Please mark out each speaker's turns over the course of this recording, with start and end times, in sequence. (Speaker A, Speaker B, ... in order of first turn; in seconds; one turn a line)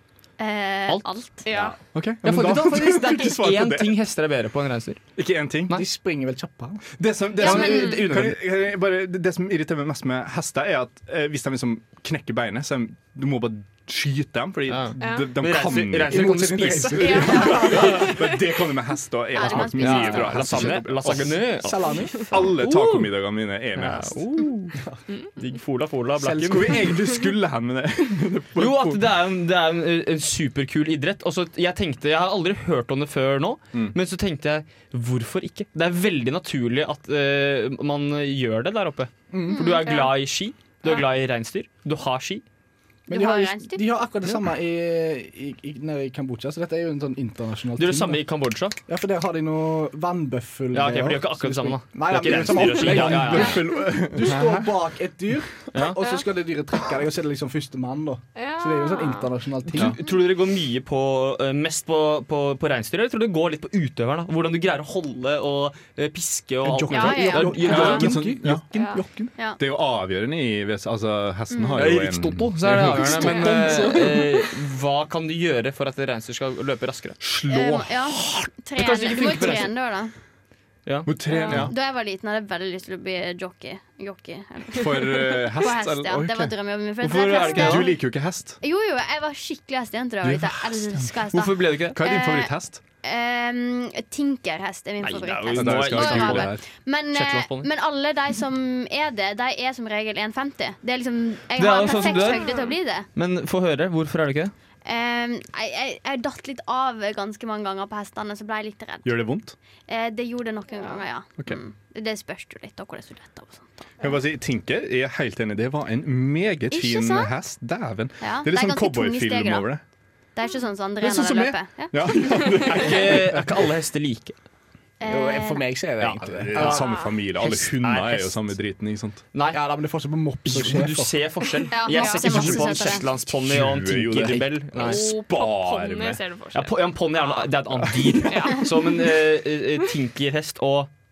Speaker A: 0.4-1.5
Speaker B: 0.9-5.0
Speaker C: 1.5-1.8
Speaker D: 1.9-4.0
Speaker D: 5.2-5.8
Speaker E: 5.7-7.0
Speaker D: 7.0-21.5
Speaker A: 7.4-8.1
Speaker B: 7.4-8.4
Speaker B: 14.7-18.1
Speaker C: 15.0-15.3
Speaker E: 16.1-18.0
Speaker C: 16.9-18.3
Speaker A: 17.5-17.7
Speaker A: 19.3-20.8
Speaker B: 19.5-23.1
Speaker E: 21.5-22.3
Speaker D: 22.3-24.2
Speaker B: 23.8-24.8
Speaker B: 25.4-26.9
Speaker E: 26.2-27.0
Speaker D: 26.4-29.1
Speaker B: 28.6-42.4
Speaker E: 39.3-39.6
Speaker A: 39.5-40.1
Speaker A: 43.1-43.9
Speaker E: 43.1-48.3
Speaker B: 47.8-48.8
Speaker E: 48.9-60.0
Speaker B: 50.7-53.6
Speaker D: 52.2-54.7
Speaker B: 55.7-56.1
Speaker C: 58.4-59.2
Speaker B: 59.7-68.6
Speaker E: 66.7-69.3
Speaker A: 66.9-67.8
Speaker D: 67.3-74.4
Speaker C: 68.7-69.0
Speaker A: 71.5-71.8
Speaker B: 71.8-77.2
Speaker E: 73.2-73.9
Speaker D: 77.2-78.5
Speaker A: 77.5-80.1
Speaker B: 78.8-79.7
Speaker B: 80.9-81.7
Speaker D: 81.1-81.7
Speaker A: 81.3-103.1
Speaker D: 84.7-86.5
Speaker B: 87.0-87.9
Speaker D: 87.3-88.6
Speaker D: 90.2-92.8
Speaker B: 91.3-92.0
Speaker B: 95.0-96.6
Speaker D: 95.5-96.6
Speaker B: 97.1-97.7
Speaker B: 101.6-102.6
Speaker C: 101.8-102.7
Speaker B: 103.1-104.5
Speaker A: 104.8-109.2
Speaker D: 109.0-109.6
Speaker A: 109.9-113.9
Speaker D: 114.0-119.8
Speaker A: 116.7-117.3
Speaker A: 118.2-119.7
Speaker A: 120.3-122.7
Speaker D: 121.0-123.5
Speaker B: 122.7-124.4
Speaker A: 125.0-125.8
Speaker E: 125.1-126.8
Speaker B: 126.0-128.6
Speaker D: 126.2-129.2
Speaker B: 129.3-135.1
Speaker E: 129.5-131.4
Speaker A: 131.7-133.1
Speaker D: 132.3-136.2
Speaker E: 132.3-132.7
Speaker C: 134.8-136.8
Speaker B: 136.5-140.9
Speaker D: 137.8-138.2
Speaker C: 138.3-138.7